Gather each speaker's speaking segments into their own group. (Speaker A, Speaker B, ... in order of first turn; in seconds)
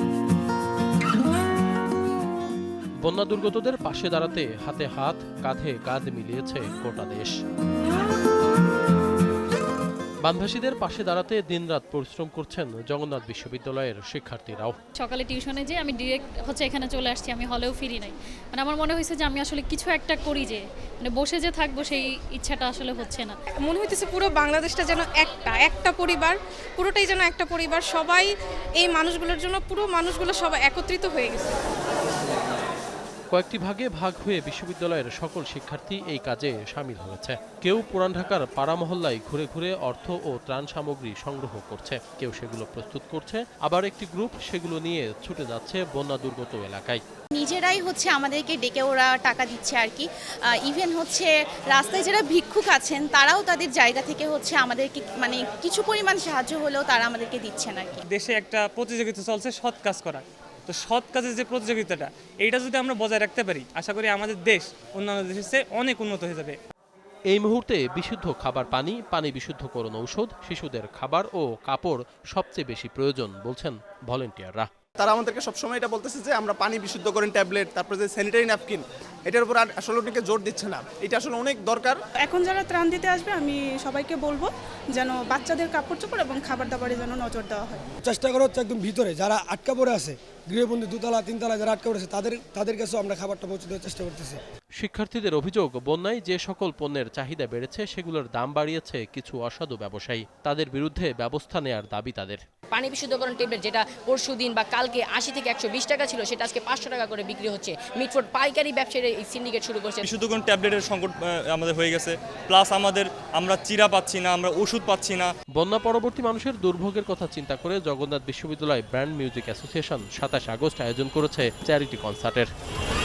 Speaker A: 3.0-7.3, 10.2-14.8, 33.3-47.0, 67.3-74.7, 94.8-102.4, 115.5-122.5
Speaker B: 15.0-23.3
Speaker C: 23.6-28.3, 28.8-31.6
Speaker D: 47.3-50.1, 50.6-58.0
Speaker E: 58.1-66.5
Speaker F: 75.0-82.0
Speaker G: 82.2-87.8
Speaker H: 88.0-94.4
Speaker I: 102.7-110.0
Speaker J: 110.0-115.3